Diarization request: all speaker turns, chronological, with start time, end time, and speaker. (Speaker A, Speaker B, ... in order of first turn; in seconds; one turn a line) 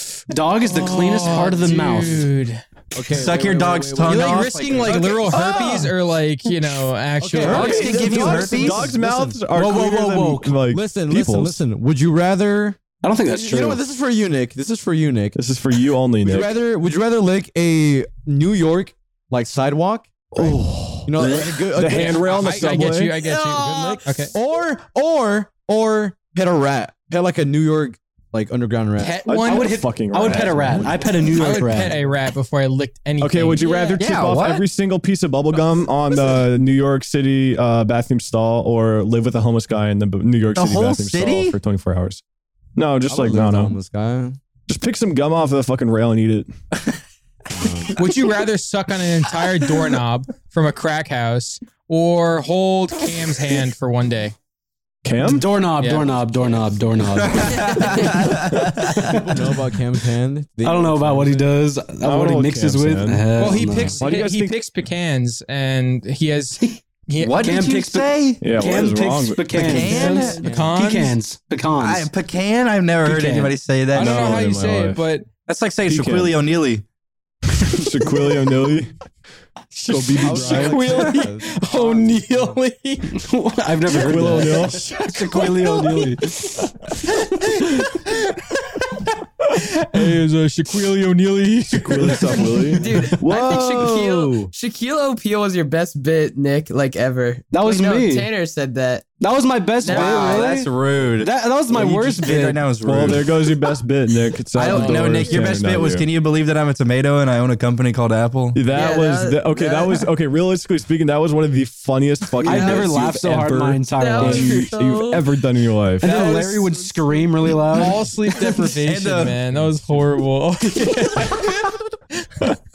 Speaker A: 0.3-2.3
Speaker B: 0.7-2.6
Speaker C: 2.9-5.8
Speaker D: 3.1-5.6
Speaker B: 4.0-8.2
Speaker C: 7.2-9.4
Speaker D: 7.5-8.9
Speaker E: 7.5-11.6
Speaker A: 9.5-10.6
Speaker C: 10.7-15.4
Speaker A: 13.0-13.8
Speaker E: 15.3-16.6
Speaker C: 16.2-29.3
Speaker E: 20.3-23.1
Speaker B: 21.8-24.4
Speaker F: 23.2-24.0
Speaker B: 29.0-30.4
Speaker E: 29.3-31.1
Speaker A: 29.4-32.0
Speaker B: 31.3-33.7
Speaker E: 33.2-42.2
Speaker F: 33.6-34.1
Speaker D: 34.0-34.6
Speaker D: 40.5-41.6
Speaker E: 42.8-43.8
Speaker C: 43.1-44.4
Speaker E: 44.7-46.5
Speaker C: 47.5-48.0
Speaker B: 48.0-54.4
Speaker E: 55.0-55.5
Speaker A: 55.2-59.4
Speaker B: 55.8-56.1
Speaker D: 57.2-59.1
Speaker C: 59.0-61.5
Speaker A: 60.6-64.0
Speaker E: 62.0-63.4
Speaker B: 63.4-67.6
Speaker C: 63.5-64.1
Speaker E: 64.0-64.6
Speaker D: 67.2-68.5
Speaker A: 67.4-72.1
Speaker E: 68.4-70.4
Speaker D: 69.5-70.4
Speaker F: 69.8-70.4
Speaker C: 70.0-70.8
Speaker B: 70.3-71.2
Speaker D: 71.8-74.4
Speaker A: 73.0-73.6
Speaker E: 73.9-75.0
Speaker B: 73.9-75.3
Speaker D: 75.5-76.8
Speaker E: 75.9-76.4
Speaker E: 77.6-78.9
Speaker B: 79.7-83.2
Speaker E: 79.9-81.1
Speaker C: 80.1-82.6
Speaker A: 83.1-87.1
Speaker E: 83.9-84.9
Speaker B: 84.0-93.0
Speaker E: 91.7-94.5
Speaker F: 92.7-99.1
Speaker A: 97.5-98.3
Speaker A: 99.2-102.6
Speaker F: 99.8-100.5
Speaker D: 99.9-103.3
Speaker E: 102.8-106.1
Speaker D: 104.5-108.6
Speaker B: 104.7-105.2
Speaker E: 108.5-116.3
Speaker F: 108.7-110.1
Speaker F: 112.4-112.9
Speaker A: 112.4-114.7
Speaker F: 114.0-115.4
Speaker F: 116.0-117.6
Speaker A: 116.0-118.0
Speaker B: 117.7-121.8
Speaker D: 118.8-119.4
Speaker C: 119.5-120.0